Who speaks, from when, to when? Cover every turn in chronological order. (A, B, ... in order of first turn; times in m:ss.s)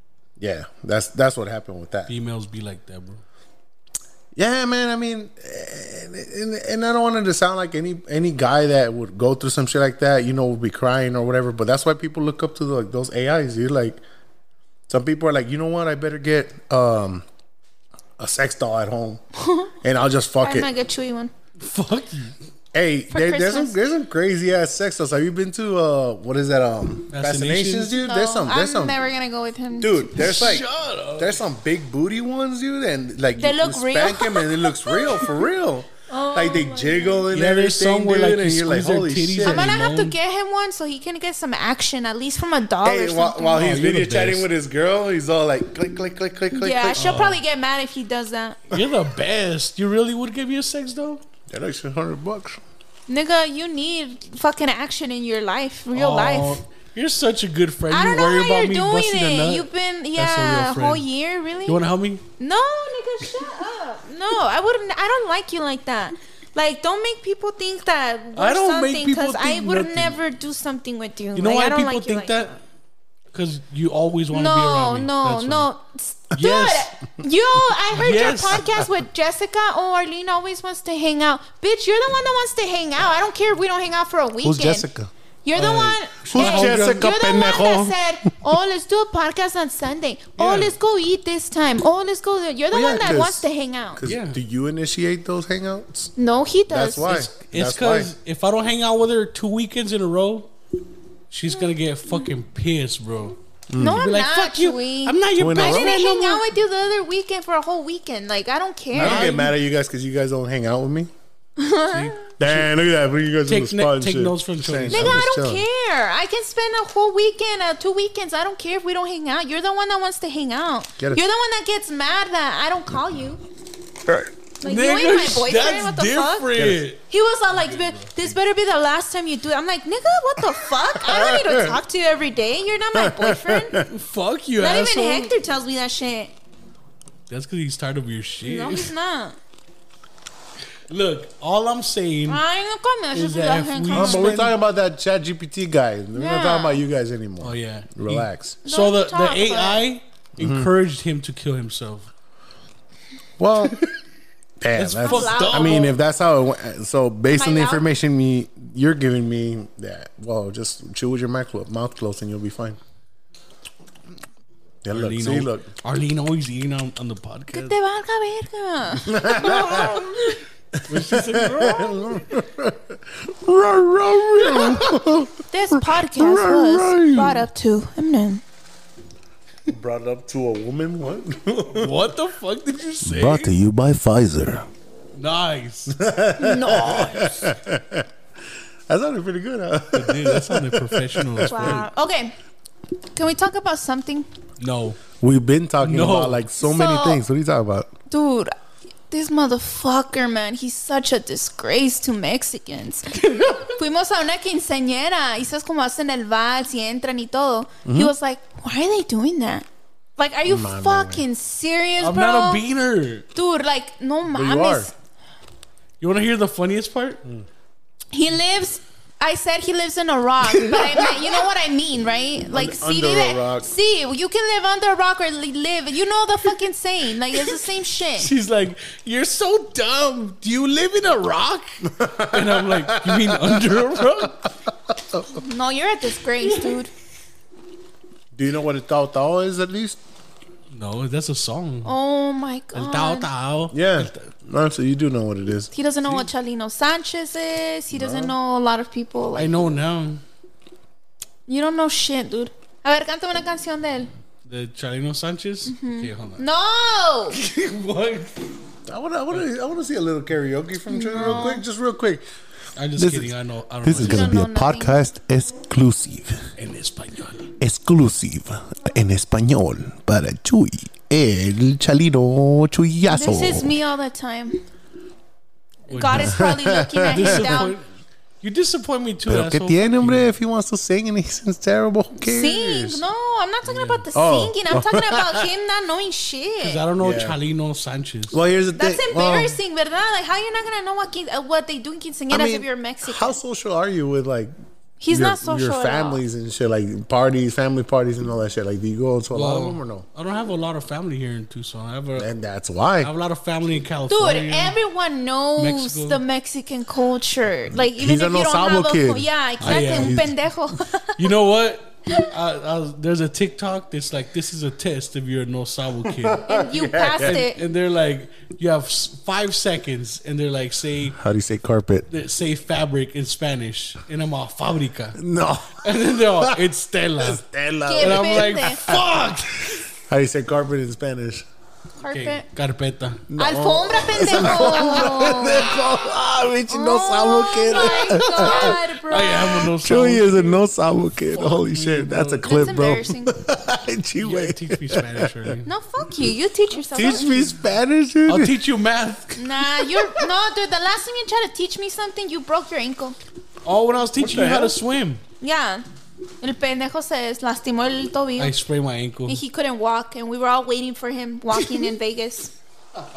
0:00.4-0:02.1 A
0:02.1-0:03.2 B
0:04.3-0:14.0 A
0:14.9-0:17.2 A
0:18.2-0:19.2 A
0:19.4-0:19.7 C
0:19.8-0:20.7 A
0:20.4-0:21.3 C
0:21.6-0:22.3 B
0:22.7-0:29.0 A
0:23.1-0:23.8 C
0:27.1-0:27.9 B
0:28.0-0:30.5 C
0:29.8-0:39.8 A
0:30.2-0:31.4 B
0:33.4-0:35.3 C
0:36.1-0:37.2 C
0:37.3-0:40.1 B
0:39.4-0:43.6 C
0:42.8-0:47.2 A
0:43.6-0:44.5 B
0:46.5-0:48.6 C
0:47.0-0:47.4 B
0:48.7-0:51.2 B
0:51.5-0:52.6 A
0:53.1-0:56.6 C
0:55.9-1:01.0 B
0:57.9-1:01.8 C
1:01.6-1:02.2 B
1:02.4-1:12.6 C
1:08.4-1:10.2 B
1:11.3-1:12.5 B
1:13.3-1:15.7 B
1:14.3-1:24.8 C
1:16.3-1:16.9 B
1:17.9-1:18.7 B
1:18.3-1:18.6 A
1:24.4-1:25.1 A
1:25.4-1:34.0 C
1:25.5-1:27.1 B
1:26.3-1:28.0 A
1:30.4-1:30.7 B
1:32.7-1:36.1 A
1:34.0-1:34.4 B
1:36.2-1:37.1 C
1:36.7-1:38.1 A
1:37.1-1:40.5 B
1:41.3-1:43.4 B
1:43.7-1:44.1 A
1:43.8-1:49.4 C
1:44.0-1:46.4 B
1:45.4-1:46.0 A
1:48.9-1:51.1 A
1:49.0-1:49.5 B
1:51.6-1:52.1 C
1:51.9-1:52.7 B
1:52.4-1:55.6 A
1:53.4-1:55.2 B
1:54.9-2:03.4 C
2:04.1-2:08.4 B
2:04.6-2:06.5 C
2:06.5-2:06.8 A
2:07.1-2:13.8 C
2:10.9-2:11.8 A
2:12.9-2:13.9 A
2:13.8-2:15.3 B
2:14.6-2:16.3 C
2:17.3-2:18.9 B
2:18.4-2:19.4 C
2:20.9-2:22.4 B
2:22.3-2:24.3 C
2:23.1-2:24.5 B
2:23.9-2:28.6 A
2:26.1-2:26.8 C
2:27.4-2:32.1 B
2:28.6-2:29.8 C
2:30.4-2:30.7 A
2:33.4-2:33.8 A
2:34.6-2:42.8 A
2:34.8-2:35.9 B
2:35.0-2:35.9 C
2:37.3-2:37.8 C
2:44.8-2:45.7 A
2:44.9-2:47.7 B
2:47.5-2:50.4 C
2:49.0-2:50.1 A
2:50.7-2:57.4 A
2:50.9-2:52.3 B
2:54.5-2:54.8 B
2:55.5-2:58.4 C
2:59.7-3:02.0 A
3:01.7-3:03.5 B
3:03.0-3:04.7 A
3:05.1-3:06.0 B
3:05.9-3:08.1 A
3:06.4-3:07.4 C
3:08.9-3:11.8 A
3:09.9-3:11.8 B
3:11.4-3:12.3 C
3:13.1-3:14.3 C
3:14.6-3:15.0 B
3:15.2-3:17.9 A
3:15.8-3:16.4 B
3:16.6-3:17.2 C
3:18.1-3:18.5 C
3:19.1-3:29.6 C
3:23.2-3:23.6 B
3:27.8-3:28.1 A
3:30.2-3:32.6 C
3:30.4-3:31.2 A
3:32.0-3:33.2 B
3:33.3-3:34.9 C
3:34.3-3:34.9 A
3:36.0-3:37.2 B
3:38.1-3:48.3 C
3:42.5-3:43.7 A
3:48.2-3:54.5 B
3:52.0-3:54.5 A
3:55.3-3:56.9 C
3:58.3-4:00.0 A
4:00.7-4:01.9 B
4:01.8-4:03.3 C
4:02.7-4:04.3 B
4:03.7-4:05.7 A
4:05.7-4:09.5 C
4:07.9-4:08.3 A
4:09.3-4:10.2 B
4:11.5-4:14.1 C
4:14.4-4:16.4 B
4:15.6-4:17.4 C
4:17.3-4:18.4 B
4:18.8-4:22.2 A
4:20.9-4:21.6 C
4:22.8-4:24.3 B
4:23.0-4:23.3 A
4:23.8-4:26.5 A
4:23.9-4:25.0 C
4:26.6-4:27.5 B
4:27.6-4:33.8 A
4:33.1-4:34.6 C
4:35.9-4:37.8 C
4:35.9-4:36.3 B
4:36.1-4:37.6 A
4:37.1-4:37.8 B
4:38.4-4:40.3 B
4:39.3-4:43.0 A
4:42.2-4:46.8 C
4:43.6-4:44.0 B
4:44.1-4:45.4 A
4:46.6-4:48.4 B
4:47.0-4:47.4 A
4:48.3-4:49.6 A
4:48.8-4:53.4 C
4:52.3-4:54.5 A
4:55.0-4:56.2 C
4:55.1-5:00.0 A
4:59.3-5:02.3 B
5:02.2-5:03.1 A
5:03.0-5:04.8 B
5:04.1-5:11.2 C
5:05.6-5:06.2 B
5:08.0-5:10.3 A
5:09.6-5:10.2 B
5:11.2-5:16.4 B
5:16.1-5:17.4 A
5:16.5-5:17.6 C
5:17.2-5:21.2 B
5:21.2-5:22.0 A
5:22.1-5:25.2 B
5:25.2-5:26.6 A
5:25.8-5:27.4 B
5:27.2-5:29.2 A
5:27.8-5:28.9 C
5:28.0-5:29.8 B
5:30.0-5:31.4 A
5:32.0-5:32.4 C
5:32.1-5:33.2 B
5:33.3-5:38.8 A
5:33.4-5:35.7 C
5:36.7-5:39.7 C
5:38.2-5:40.7 B
5:39.8-5:45.5 A
5:41.3-5:42.9 B
5:42.4-5:43.4 C
5:44.2-5:45.7 B
5:45.6-5:47.5 C
5:46.9-5:48.6 A
5:48.3-5:49.4 B
5:49.4-5:53.2 C
5:53.6-5:55.2 B
5:54.2-5:54.7 A
5:55.4-5:55.8 C
5:56.4-5:58.6 C
5:58.4-5:59.4 B
5:59.2-6:02.5 C